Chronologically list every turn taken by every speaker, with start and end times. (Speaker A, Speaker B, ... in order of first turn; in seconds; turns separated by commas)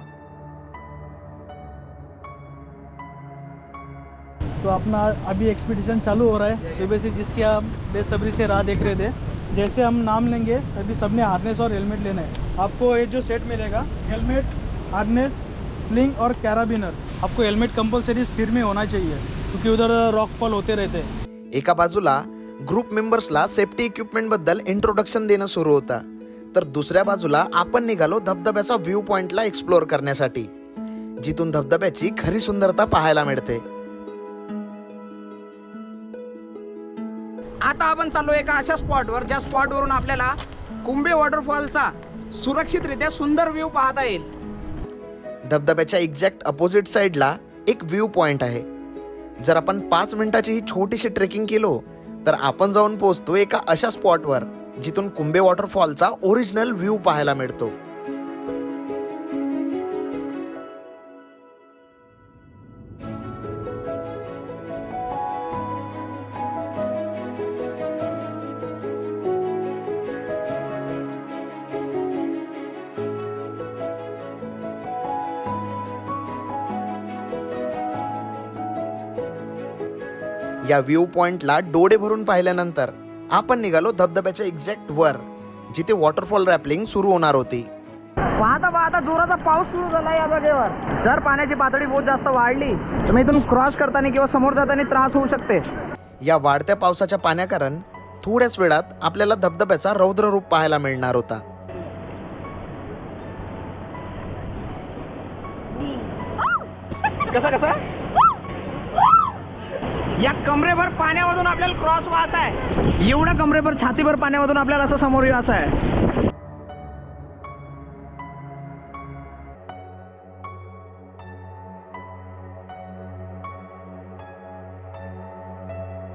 Speaker A: 4.6-21.1, Speaker B: 21.5-30.5, Speaker B: 31.2-33.6, Speaker C: 37.6-40.3, Speaker C: 40.8-44.3, Speaker B: 45.5-48.6, Speaker B: 49.4-57.8, Speaker B: 80.7-87.7, Speaker C: 88.4-95.7, Speaker B: 96.2-101.4, Speaker C: 107.3-107.8, Speaker C: 110.2-115.7